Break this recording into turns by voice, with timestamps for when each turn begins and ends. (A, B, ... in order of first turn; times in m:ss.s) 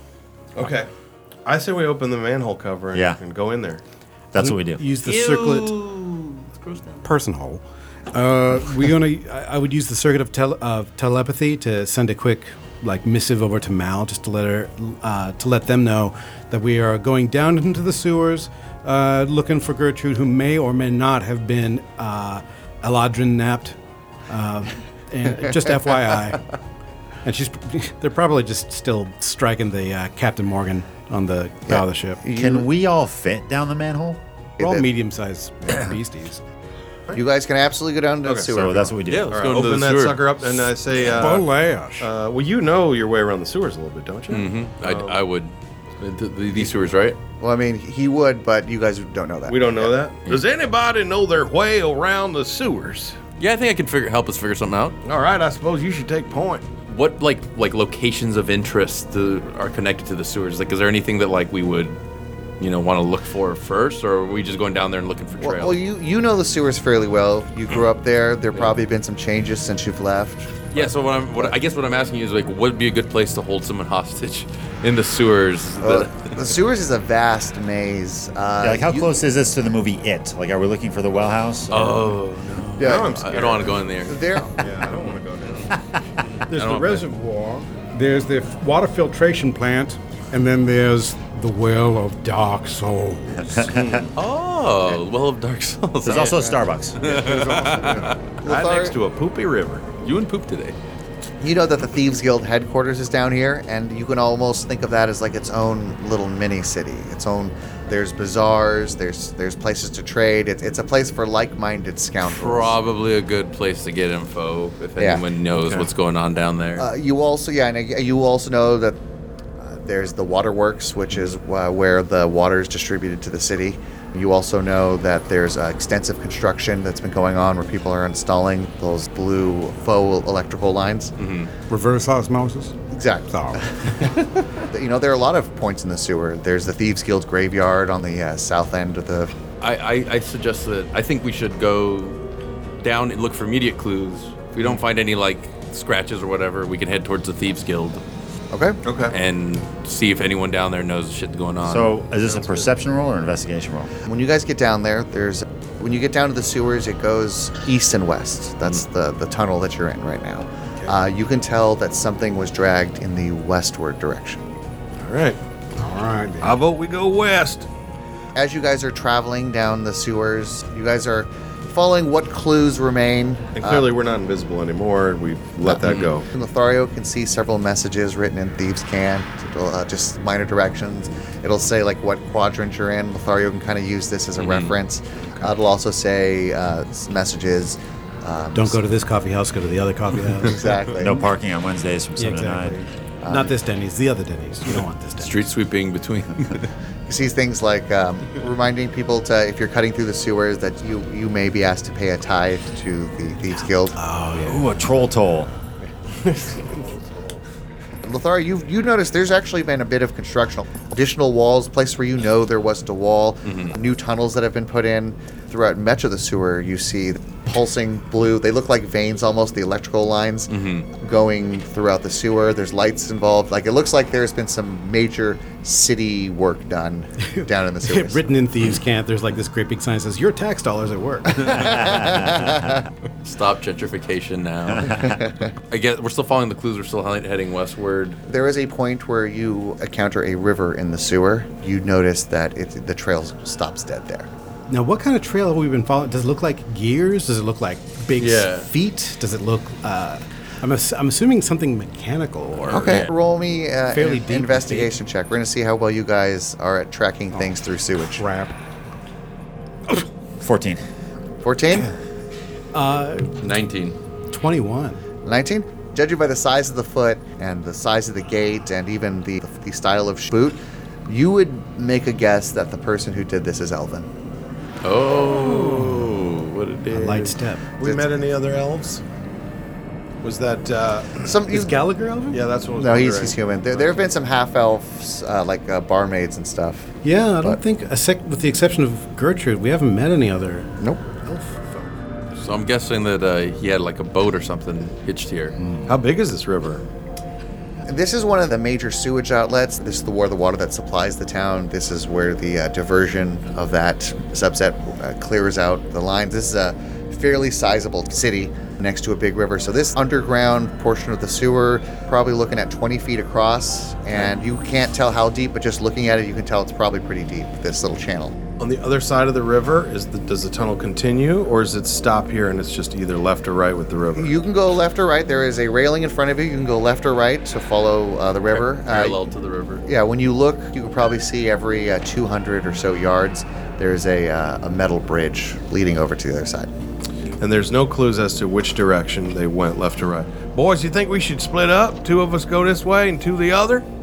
0:00.5-0:00.9 A
0:01.4-0:03.8 A
0:04.3-0:04.8 B
0:04.4-0:05.8 C
0:05.0-0:07.0 D
0:07.0-0:07.6 C
0:08.1-0:23.8 C
0:08.2-0:08.7 E
0:24.3-0:26.4 C
0:27.2-0:32.2 C
0:31.7-0:32.7 F
0:32.3-0:34.2 B
0:34.6-0:34.9 F
0:34.6-0:36.4 C
0:37.1-0:39.0 F
0:38.5-0:39.4 B
0:39.0-0:40.3 D
0:39.3-0:45.2 A
0:41.0-0:42.1 E
0:44.3-0:47.2 D
0:47.4-0:50.0 F
0:49.5-0:53.2 A
0:53.4-0:55.0 D
0:55.0-0:56.6 A
0:56.9-1:02.0 D
1:02.6-1:05.8 D
1:05.4-1:11.6 F
1:10.7-1:16.4 D
1:15.8-1:19.1 F
1:18.6-1:22.1 B
1:21.7-1:24.3 D
1:22.8-1:23.9 A
1:22.8-1:24.9 F
1:24.6-1:25.7 A
1:26.5-1:27.1 D
1:26.5-1:27.6 C
1:27.7-1:33.7 E
1:33.6-1:34.0 B
1:33.7-1:34.1 A
1:34.1-1:38.2 D
1:36.0-1:37.0 B
1:36.2-1:36.6 F
1:37.0-1:38.2 E
1:38.4-1:38.9 F
1:38.4-1:39.9 A
1:40.0-1:40.8 D
1:41.4-1:52.8 F
1:52.2-1:56.9 D
1:55.0-1:55.2 F
1:55.6-1:55.9 A
1:56.8-1:59.0 F
1:59.6-2:11.1 F
2:11.2-2:11.5 D
2:11.7-2:12.7 E
2:12.9-2:19.3 F
2:13.3-2:13.6 E
2:19.6-2:22.2 D
2:22.8-2:28.0 D
2:28.5-2:28.8 F
2:28.8-2:29.2 A
2:29.1-2:31.9 D
2:31.6-2:33.9 B
2:34.0-2:44.4 F
2:45.0-2:45.4 A
2:45.8-2:46.6 E
2:46.4-2:47.7 A
2:48.3-2:53.9 F
2:53.6-2:56.3 A
2:55.6-3:08.8 F
2:55.8-2:56.1 D
3:04.4-3:04.8 D
3:05.2-3:05.5 A
3:08.5-3:10.8 C
3:10.4-3:11.3 F
3:11.0-3:12.8 B
3:12.2-3:15.4 C
3:13.2-3:13.5 F
3:15.2-3:16.7 D
3:17.1-3:24.0 F
3:24.0-3:24.8 C
3:24.4-3:25.5 B
3:26.3-3:26.8 A
3:28.0-3:48.2 F
3:33.4-3:33.7 D
3:40.5-3:40.9 D
3:47.3-3:51.6 C
3:51.3-3:52.8 F
3:51.6-3:52.3 B
3:53.2-3:55.2 D
3:55.0-3:55.3 F
3:55.7-3:58.2 D
3:58.3-4:04.3 F
4:04.7-4:13.0 C
4:08.2-4:08.7 D
4:12.6-4:13.1 D
4:12.7-4:18.2 F
4:13.9-4:15.0 C
4:18.2-4:18.5 E
4:20.4-4:20.8 B
4:21.4-4:21.9 F
4:22.7-4:23.3 C
4:23.4-4:24.0 D
4:24.3-4:25.0 C
4:25.2-4:34.1 F
4:34.8-4:37.4 D
4:35.4-4:36.1 C
4:36.9-4:37.7 C
4:37.8-4:39.0 A
4:37.8-4:38.1 F
4:40.2-4:41.4 A
4:41.2-4:41.8 F
4:41.5-4:42.4 C
4:42.3-4:44.0 A
4:42.8-4:47.6 F
4:47.0-4:50.7 C
4:51.2-4:51.9 C
4:52.4-4:55.6 D
4:55.9-4:56.8 A
4:57.8-5:18.4 F
5:18.6-5:24.4 A
5:24.2-5:29.2 F
5:28.5-5:29.8 D
5:29.8-5:36.7 F
5:37.4-5:43.8 A